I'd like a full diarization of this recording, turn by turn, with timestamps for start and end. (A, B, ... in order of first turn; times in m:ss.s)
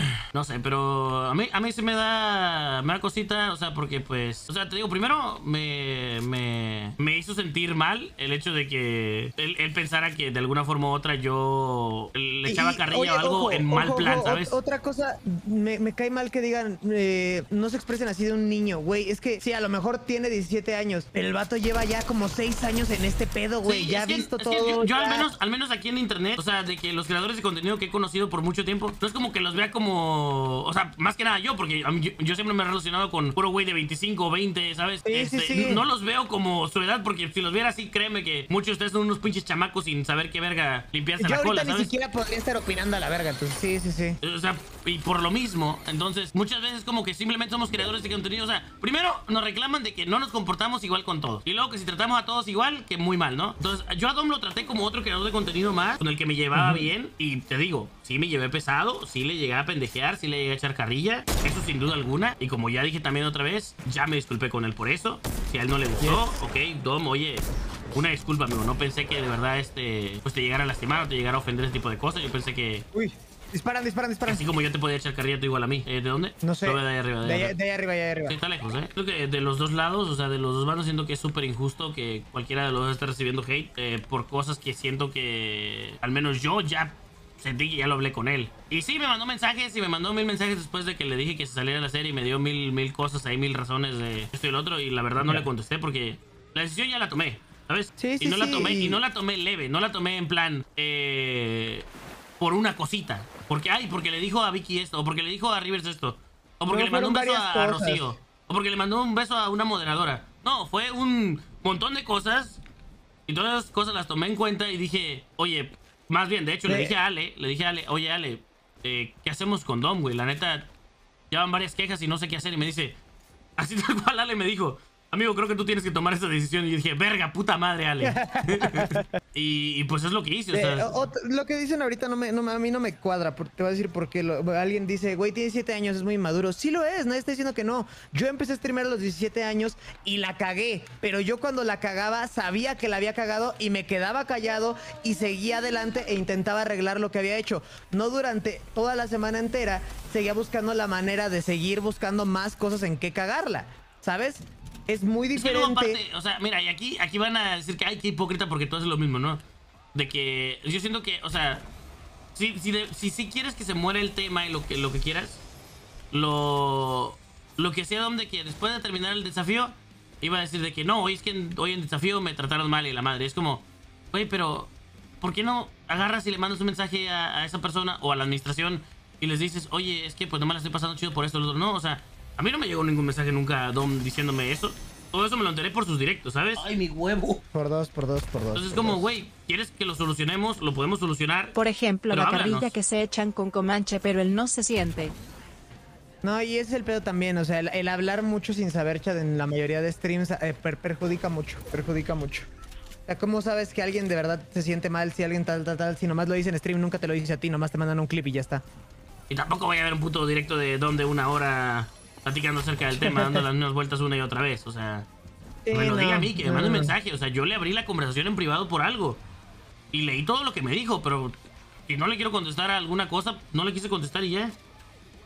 0:00.3-0:14.6 A
0:12.4-0:25.3 B
0:23.6-0:41.9 A
0:35.0-0:35.8 B
0:41.2-0:44.2 B
0:44.2-1:12.8 A
0:56.5-0:56.9 B
1:12.9-1:14.4 B
1:14.2-1:17.6 A
1:16.4-1:18.4 B
1:18.3-1:41.9 A
1:35.2-1:35.5 B
1:38.0-1:39.0 B
1:42.4-1:52.6 A
1:46.7-1:48.1 B
1:53.3-2:00.7 A
1:56.6-1:56.9 B
2:01.3-2:03.0 A
2:03.6-2:11.0 A
2:08.0-2:09.1 B
2:10.5-2:36.0 B
2:35.4-2:39.4 A
2:39.9-2:41.7 A
2:42.3-2:45.4 A
2:46.1-3:07.4 A
3:07.5-3:09.1 B
3:08.5-3:11.6 A
3:11.6-3:15.1 C
3:12.1-3:12.7 A
3:16.2-3:22.5 B
3:23.1-3:28.6 B
3:29.3-3:35.1 A
3:32.9-3:33.4 B
3:35.6-3:36.9 B
3:35.7-3:39.2 A
3:39.9-3:44.5 A